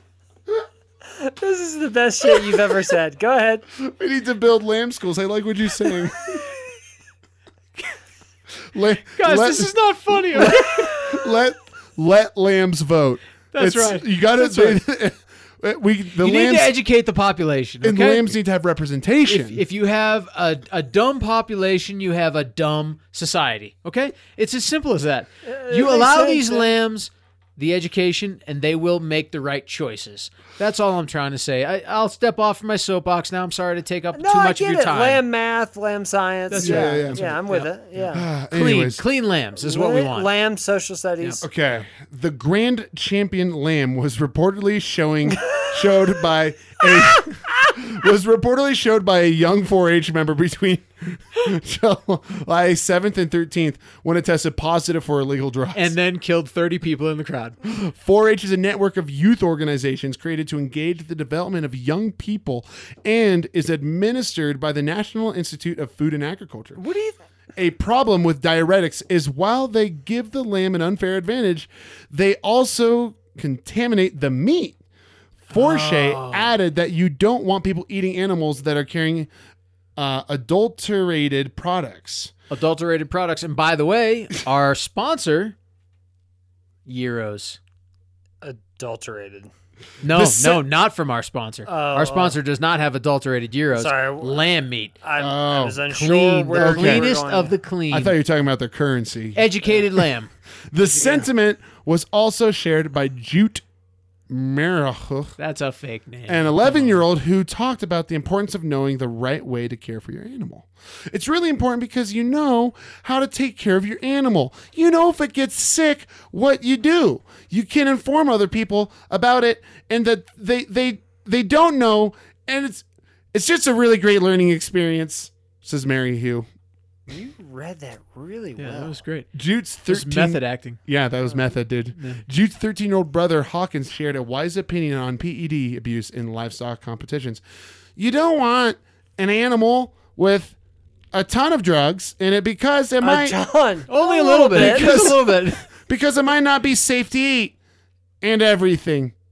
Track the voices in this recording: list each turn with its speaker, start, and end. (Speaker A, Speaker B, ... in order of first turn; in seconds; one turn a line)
Speaker A: 1.1-3.7
Speaker B: 3.8-6.5
Speaker B: 8.7-16.8
Speaker C: 9.1-11.3
Speaker C: 13.5-14.8
Speaker C: 16.2-18.3
Speaker B: 17.8-19.6
Speaker C: 19.3-35.2
Speaker A: 25.4-26.7
Speaker A: 34.1-38.3
Speaker C: 36.5-37.7
Speaker B: 36.6-37.4
Speaker B: 38.1-39.0
Speaker C: 38.5-40.3
Speaker A: 39.6-41.4
Speaker B: 41.4-55.9
Speaker A: 45.4-45.8
Speaker C: 55.8-57.6
Speaker B: 57.6-66.8
Speaker C: 66.8-67.2
Speaker B: 67.6-74.8
Speaker B: 75.5-79.3
Speaker C: 75.5-76.5
Speaker B: 80.0-82.3
Speaker C: 82.5-85.5
Speaker C: 86.9-87.6
Speaker A: 88.4-89.5
Speaker C: 90.0-95.0
Speaker B: 90.1-90.6
Speaker A: 91.7-92.4
Speaker A: 93.7-94.5
Speaker A: 95.0-97.5
Speaker B: 95.2-95.8
Speaker C: 95.9-98.2
Speaker B: 96.5-97.2
Speaker B: 97.9-100.1
Speaker C: 99.3-100.3
Speaker B: 100.7-103.6
Speaker A: 100.9-101.3
Speaker B: 104.3-105.4
Speaker C: 105.4-107.0
Speaker B: 106.3-126.5
Speaker A: 127.1-129.0
Speaker C: 128.6-129.3
Speaker B: 129.3-137.4
Speaker C: 129.8-130.8
Speaker C: 132.0-132.2
Speaker B: 138.0-140.6
Speaker B: 141.1-143.4
Speaker A: 143.0-145.2
Speaker C: 143.9-145.7
Speaker B: 144.5-147.6
Speaker B: 148.2-149.2